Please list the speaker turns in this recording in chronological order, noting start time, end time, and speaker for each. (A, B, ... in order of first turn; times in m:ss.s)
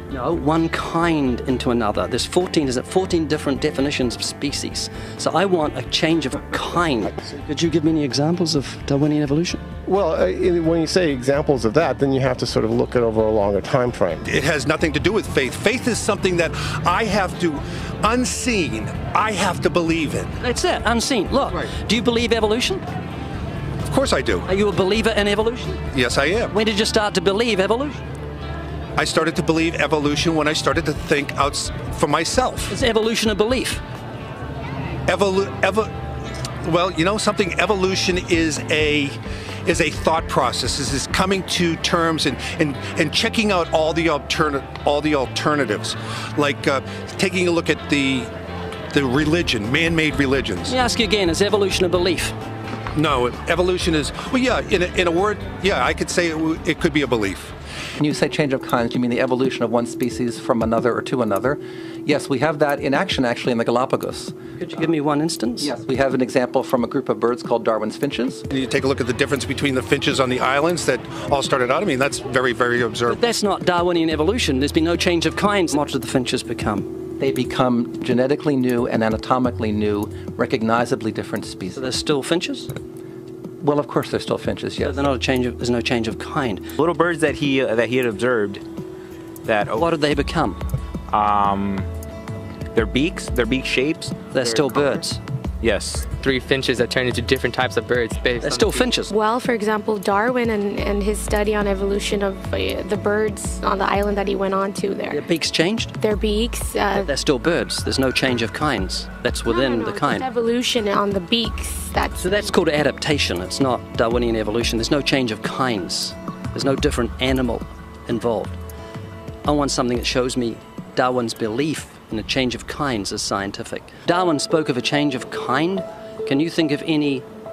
0:00.1-0:09.6 A
0:09.8-0:14.2 B
0:14.2-0:20.3 C
0:20.4-0:22.8 A
0:23.9-0:24.5 C
0:24.5-0:25.8 A
0:25.9-0:26.5 C
0:26.5-0:28.0 A
0:29.0-0:32.8 C
0:32.7-0:33.8 A
0:35.1-0:35.9 C
0:36.6-0:48.3 C
0:48.9-0:50.8 C
0:50.7-0:52.4 A
0:53.0-0:57.5 C
0:58.0-1:04.3 D
1:04.6-1:05.7 A
1:05.6-1:08.4 D
1:08.5-1:13.2 C
1:13.1-1:16.9 A
1:17.2-1:21.9 D
1:21.7-1:22.7 A
1:23.6-1:25.1 D
1:24.8-1:26.7 A
1:26.8-1:28.6 E
1:29.4-1:29.9 E
1:29.8-1:30.6 A
1:31.1-1:31.9 E
1:32.7-1:34.9 E
1:34.3-1:35.2 A
1:35.6-1:36.2 E
1:36.1-1:38.9 F
1:38.4-1:39.1 A
1:39.1-1:45.2 G
1:45.1-1:45.9 A
1:46.0-1:47.1 G
1:47.0-1:50.3 A
1:49.5-1:52.5 G
1:52.2-1:58.6 A
1:59.4-2:07.2 A